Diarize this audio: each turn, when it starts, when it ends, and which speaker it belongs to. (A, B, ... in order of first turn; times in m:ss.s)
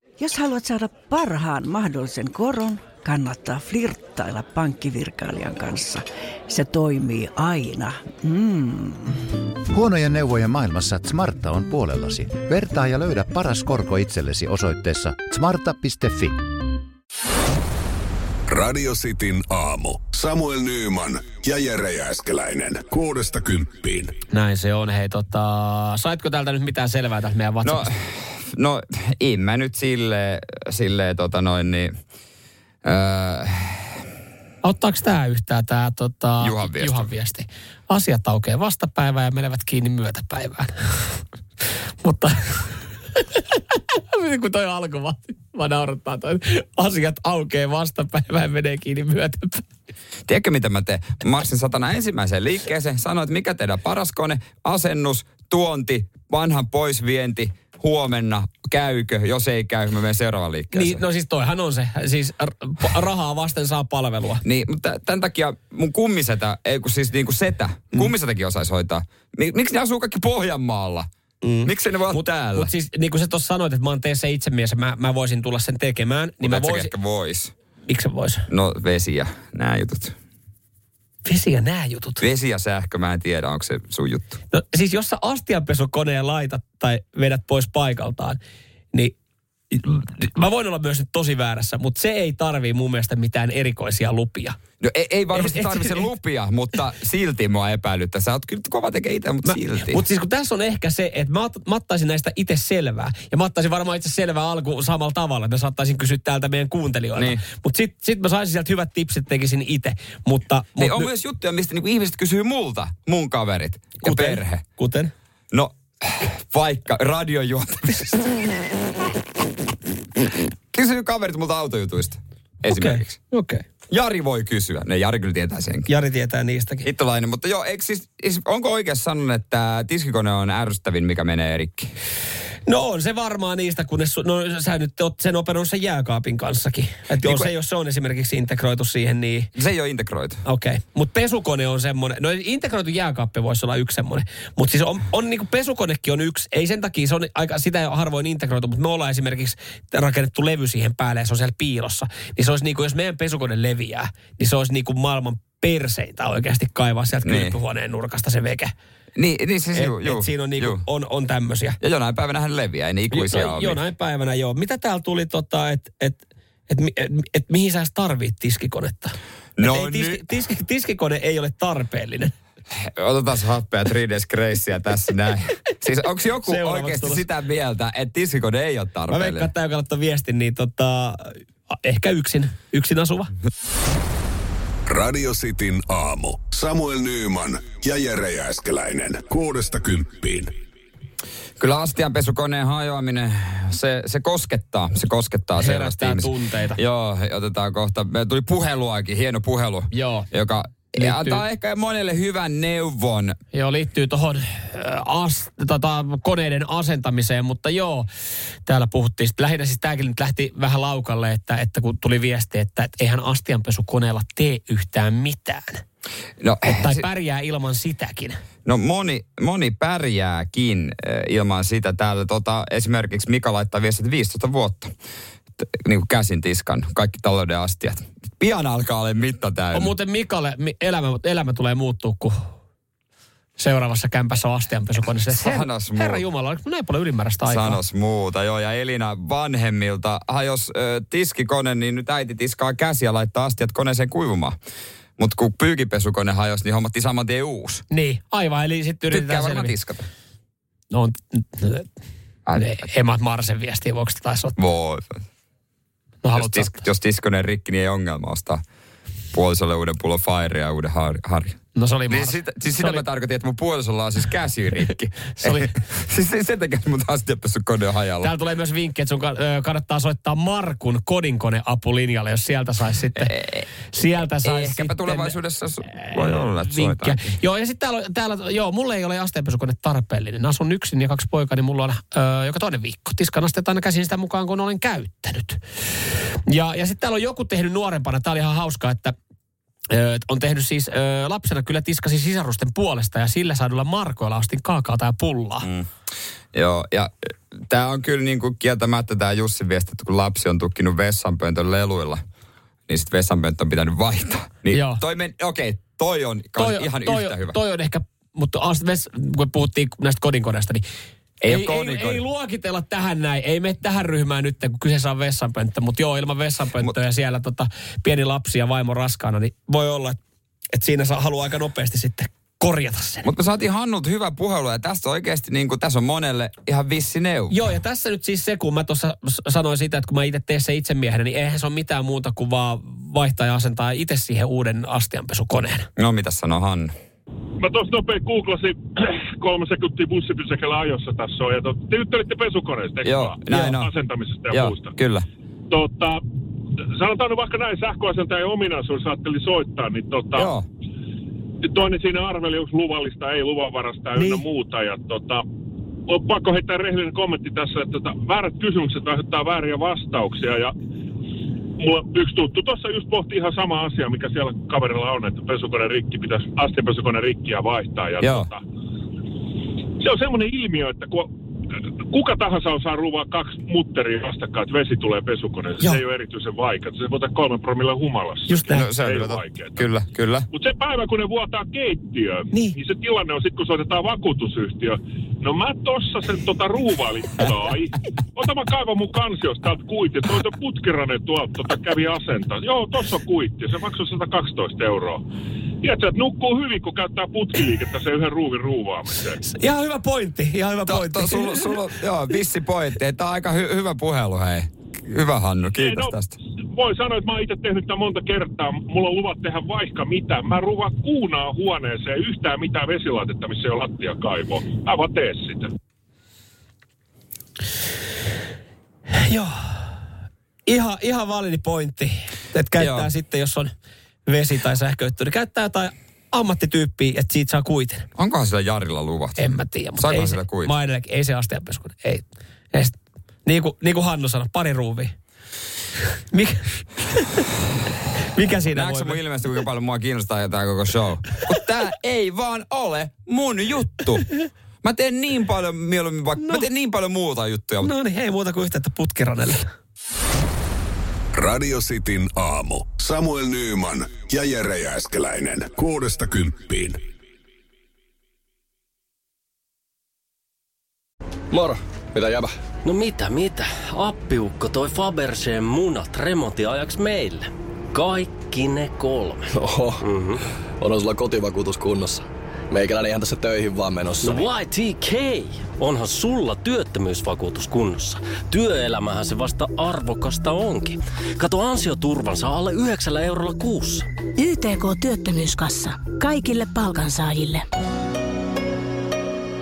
0:00.2-0:09.2 A
0:09.7-0:16.4 B
0:18.5-0:24.1 C
0:24.3-0:27.9 D
0:27.6-0:31.9 E
0:32.8-0:33.9 E
0:34.6-0:41.2 D
0:36.4-0:37.1 E
0:42.0-0:43.6 D
0:44.1-0:49.6 D
0:50.3-1:01.0 E
1:00.7-1:04.4 D
1:04.4-1:11.1 E
1:11.4-1:16.9 D
1:11.6-1:12.7 E
1:16.4-1:17.5 E
1:17.9-1:18.5 D
1:18.5-1:20.1 E
1:21.2-1:22.2 D
1:22.2-1:24.4 E
1:24.5-1:28.4 D
1:29.7-1:34.6 D
1:34.8-1:40.0 E
1:35.3-1:36.0 D
1:39.4-1:51.1 D
1:47.2-1:47.4 E
1:50.8-1:54.6 E
1:54.0-1:55.1 D
1:55.5-1:58.6 E
2:00.2-2:03.2 E
2:02.7-2:03.6 D
2:03.9-2:05.9 E
2:05.8-2:06.9 D
2:06.8-2:11.9 E
2:12.7-2:19.5 D
2:17.2-2:17.5 E
2:19.6-2:20.4 E
2:20.4-2:38.7 D
2:37.2-2:37.5 E
2:39.2-2:40.8 E
2:39.7-2:41.8 D
2:41.8-2:43.8 E
2:43.1-2:52.3 D
2:49.6-2:50.3 E
2:52.7-2:59.5 E
2:56.4-2:57.3 D
2:59.1-3:03.3 D
3:04.9-3:10.5 C
3:11.6-3:23.4 E
3:15.6-3:16.8 D
3:19.9-3:20.3 D
3:21.0-3:21.4 D
3:23.5-3:28.1 D
3:28.6-3:35.8 D
3:36.4-3:37.0 E
3:36.7-3:38.4 D
3:38.6-3:44.9 E
3:45.7-3:49.9 E
3:49.7-3:52.4 D
3:53.6-3:57.8 D
3:55.3-3:56.2 E
3:57.5-4:04.6 E
4:05.2-4:07.8 E
4:07.9-4:09.7 D
4:09.1-4:10.1 E
4:10.9-4:11.9 D
4:12.5-4:12.8 E
4:12.6-4:14.6 D
4:14.6-4:15.2 E
4:16.2-4:16.8 D
4:16.4-4:18.6 E
4:19.3-4:28.3 E
4:21.7-4:23.0 D
4:25.4-4:25.7 D
4:28.2-4:33.3 D
4:33.2-4:33.6 E
4:33.9-4:35.4 D
4:34.4-4:37.2 E
4:35.9-4:45.6 D
4:46.5-4:49.1 D
4:49.9-4:55.7 D
4:56.5-5:02.2 E
5:02.9-5:07.6 E
5:04.7-5:05.0 D
5:06.6-5:10.8 D
5:11.4-5:12.2 E
5:11.5-5:20.2 D
5:20.7-5:23.3 D
5:23.2-5:27.6 E
5:27.5-5:35.9 D
5:36.0-5:36.9 E
5:37.6-5:44.9 F
5:43.0-5:43.9 E
5:44.5-5:45.2 E
5:45.7-5:46.2 F
5:46.9-5:50.5 F
5:50.3-5:50.6 E
5:51.6-5:55.4 F
5:54.2-5:54.4 D
5:56.1-6:00.7 F
6:01.8-6:08.6 F
6:08.2-6:08.5 E
6:10.0-6:11.3 F
6:12.1-6:19.9 F
6:18.5-6:18.9 D
6:18.7-6:20.5 E
6:20.5-6:35.2 F
6:35.8-6:39.4 F
6:39.4-6:41.8 D
6:40.9-6:46.3 E
6:45.8-6:46.2 F
6:46.7-6:55.7 F
6:59.1-6:59.9 D
7:00.6-7:03.7 D
7:02.8-7:03.1 E
7:04.2-7:08.1 D
7:08.2-7:09.4 E
7:09.4-7:15.1 D
7:10.0-7:10.7 E
7:16.3-7:16.7 D
7:18.3-7:19.2 D
7:18.7-7:24.2 E
7:24.8-7:27.9 E
7:27.8-7:29.6 D
7:31.3-7:37.0 C
7:41.5-7:42.5 G
7:42.8-7:50.4 H
7:49.5-7:50.0 G
7:50.8-7:54.5 G
7:54.2-8:04.1 H